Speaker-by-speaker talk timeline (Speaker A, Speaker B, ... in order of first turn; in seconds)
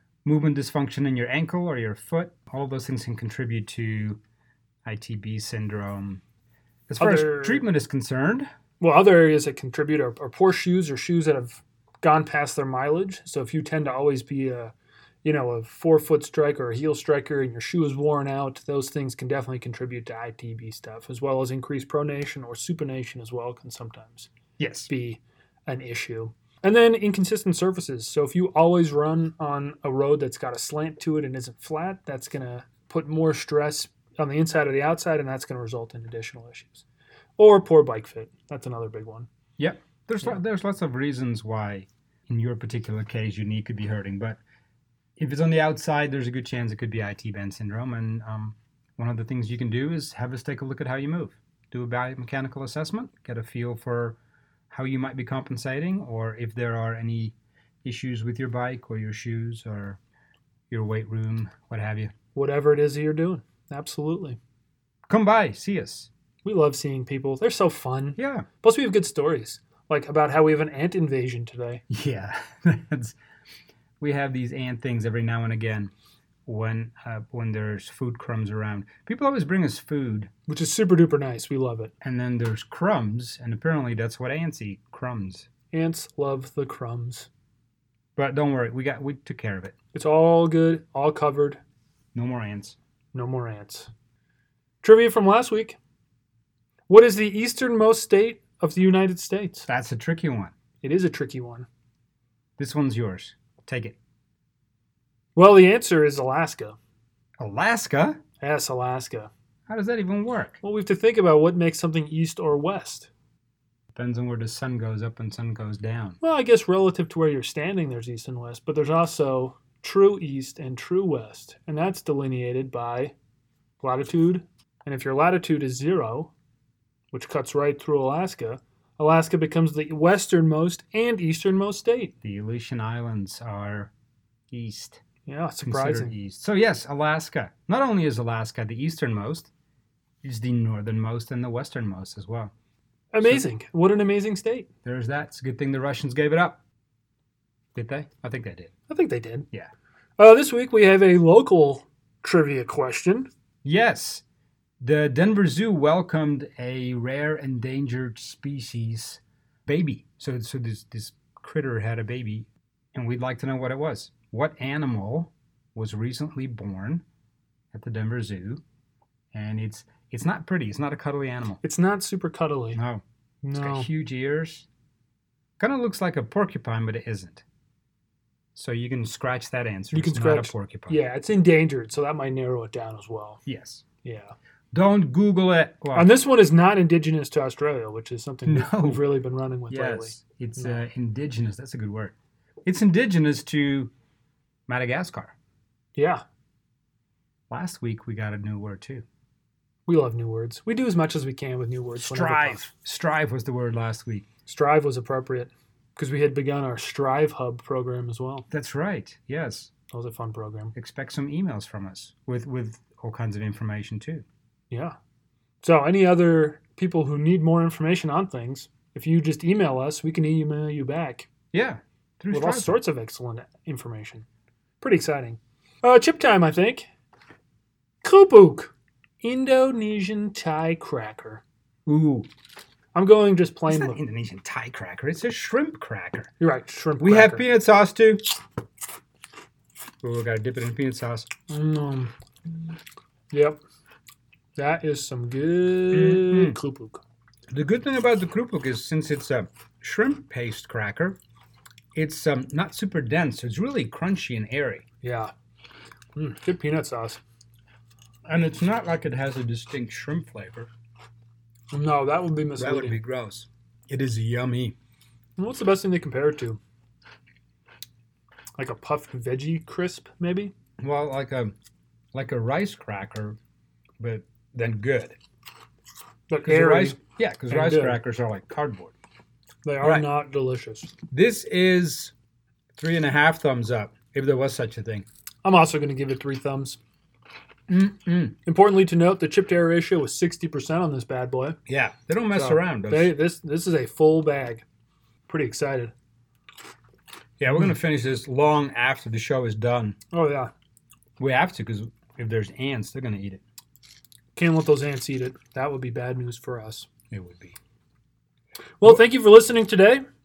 Speaker A: 0.2-4.2, 4.8-6.2, 6.9-8.5, 24.6-24.9, 39.6-44.4, 45.2-54.2, 54.7-60.0, 60.7-62.1, 65.1-66.1, 68.2-68.5, 71.9-73.2, 74.0-75.9, 76.5-80.3, 82.0-85.5, 88.2-89.8, 92.2-92.8, 99.7-100.5, 102.6-104.0, 107.4-108.2, 109.7-110.6, 114.0-116.2, 132.2-133.9, 134.5-135.0, 135.6-139.5, 140.2-142.5, 144.8-146.6, 147.8-148.7, 153.6-154.2, 154.8-167.0, 167.7-168.6, 169.3-171.6, 172.8-173.0, 173.6-174.7, 175.6-177.4, 178.6-181.0, 183.5-183.8, 184.7-186.2, 188.5-189.0, 189.7-193.9, 194.7-195.3, 197.5-199.1, 202.0-204.3, 208.5-209.7, 210.7-214.2, 221.5-222.8, 231.9-232.3, 233.7-236.3, 237.0-238.2, 240.0-241.3, 245.9-246.6, 247.5-251.2, 251.9-254.8, 258.3-260.7, 262.6-264.8, 270.8-271.6, 272.1-273.4, 274.0-275.2, 276.4-278.9, 279.8-280.1, 281.1-282.1, 282.8-285.1, 287.7-288.4, 291.7-293.1, 297.4-300.0, 301.2-303.4, 307.1-307.6
Speaker B: 7.0-7.7, 8.8-14.7, 15.2-24.3, 24.9-36.9, 37.4-39.3, 62.3-64.4, 66.4-71.8, 80.5-81.9, 85.7-87.3, 89.9-91.6, 93.1-93.9, 94.8-95.8, 96.9-99.7, 100.8-101.7, 105.4-106.8, 108.4-109.3, 110.6-113.1, 116.2-123.1, 123.8-126.3, 127.1-132.1, 135.3-136.2, 143.1-144.7, 148.9-149.5, 150.2-153.3, 171.6-172.8, 173.4-173.9, 179.9-183.4, 184.0-184.3, 185.9-190.8, 195.9-196.2, 199.9-202.7, 204.5-208.5, 209.9-210.7, 214.7-214.9, 215.6-221.3, 222.3-224.2, 224.8-226.8, 228.0-231.4, 232.9-234.0, 236.4-237.5, 241.5-242.1, 243.3-243.6, 244.6-247.0, 255.0-255.3, 256.2-257.2, 261.7-263.0, 265.4-266.6, 268.6-270.5, 276.3-277.0, 277.5-278.0, 279.6-280.9, 285.4-286.8, 288.4-291.6, 292.3-294.6, 295.3-295.9, 300.1-300.5, 304.4-306.9, 308.8-310.0